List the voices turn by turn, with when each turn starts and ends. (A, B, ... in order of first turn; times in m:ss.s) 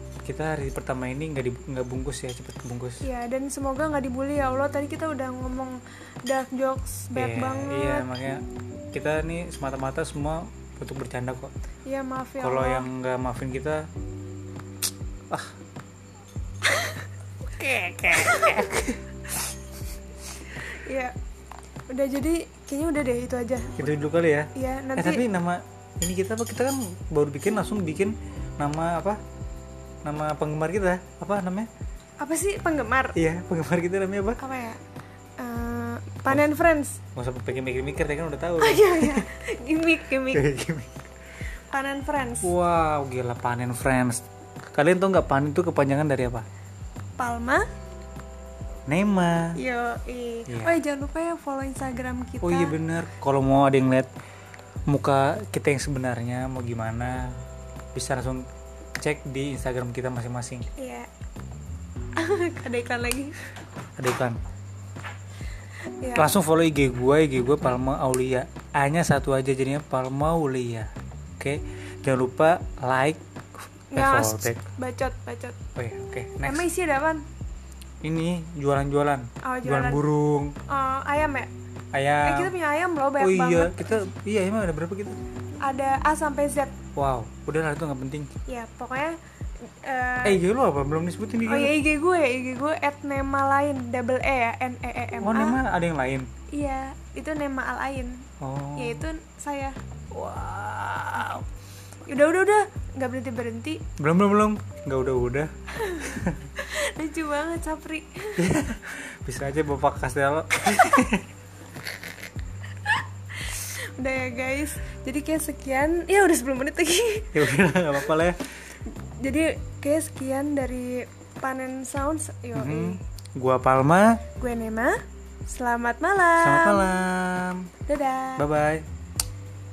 0:00.2-0:03.0 A
0:03.0-0:08.1 B
0:07.2-0:11.5 A
0:11.9-0:12.9 B
0:12.4-0:13.9 A
0:16.6-0:17.1 B
0:17.5-0:19.0 A
0:18.1-0:18.7 B
0:20.5-0:21.1 B
0:21.9-0:23.9 B
0:23.8-0:29.2 A
0:24.6-0:25.2 B
0:30.0-0:31.7 A
0:32.2-0:33.2 B
0:33.2-0:34.4 A
0:34.4-0:34.8 B
0:35.4-0:37.0 B
0:37.2-0:39.3 A
0:38.6-0:40.4 B
0:40.3-0:40.9 A
0:41.7-0:42.5 B
0:42.4-0:46.5 A
0:47.2-0:47.7 B
0:48.9-0:49.6 A
0:49.6-0:52.8 B
0:50.5-0:50.8 A
0:52.4-0:54.1 A
0:54.9-0:57.4 A
0:58.0-0:58.5 A
0:59.0-1:00.7 A
1:00.8-1:01.1 B
1:02.2-1:03.3 B
1:04.0-1:04.4 A
1:06.0-1:06.3 B
1:06.2-1:14.6 A
1:13.9-1:15.6 B
1:15.8-1:16.6 A
1:16.4-1:17.3 B
1:18.0-1:20.6 A
1:19.4-1:20.0 B
1:20.7-1:21.5 B
1:21.9-1:22.5 A
1:22.2-1:24.1 B
1:23.2-1:25.2 A
1:25.6-1:26.8 B
1:27.0-1:28.3 A
1:28.5-1:30.4 B
1:30.2-1:31.7 A
1:31.5-1:35.6 B
1:35.2-1:36.3 A
1:36.5-1:38.2 B
1:38.4-1:39.0 A
1:38.8-1:39.8 B
1:40.1-1:41.4 A
1:42.1-1:43.8 B
1:44.0-1:46.5 A
1:45.8-1:48.6 B
1:48.4-1:51.3 A
1:52.8-1:57.5 B
1:57.3-1:58.4 A
1:58.9-2:03.0 B
2:02.6-2:04.2 A
2:04.4-2:07.0 B
2:06.4-2:07.7 A
2:07.9-2:08.4 B
2:08.4-2:08.9 A